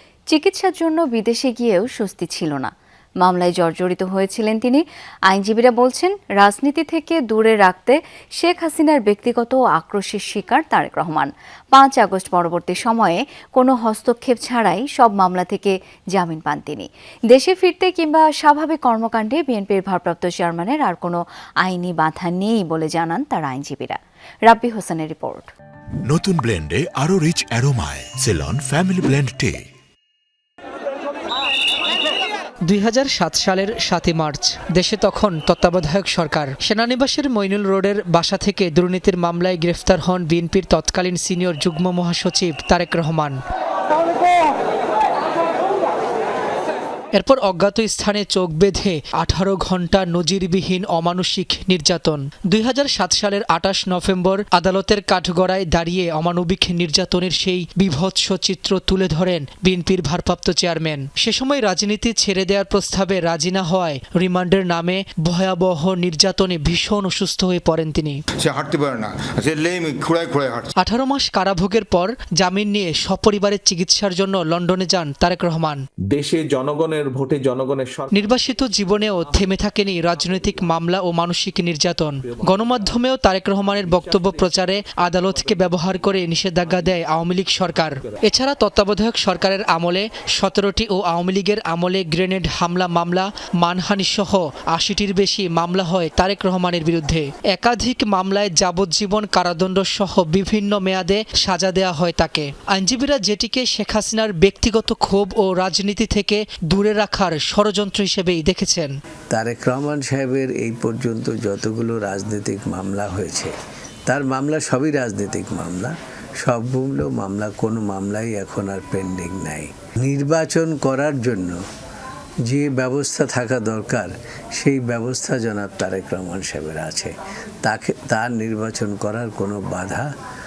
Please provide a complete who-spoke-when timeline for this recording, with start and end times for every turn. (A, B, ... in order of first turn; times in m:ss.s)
0:00.3-0:02.7 A
0:03.2-0:25.5 A
0:26.2-0:29.5 B
0:32.7-0:43.4 C
0:47.2-1:08.2 C
1:08.4-1:10.7 D
1:10.8-1:15.8 C
1:16.1-1:20.8 E
1:18.1-1:48.9 C
1:22.2-1:23.0 E
1:23.6-1:28.2 E
1:49.3-1:53.5 F
1:54.1-2:01.6 F
2:02.5-2:10.1 F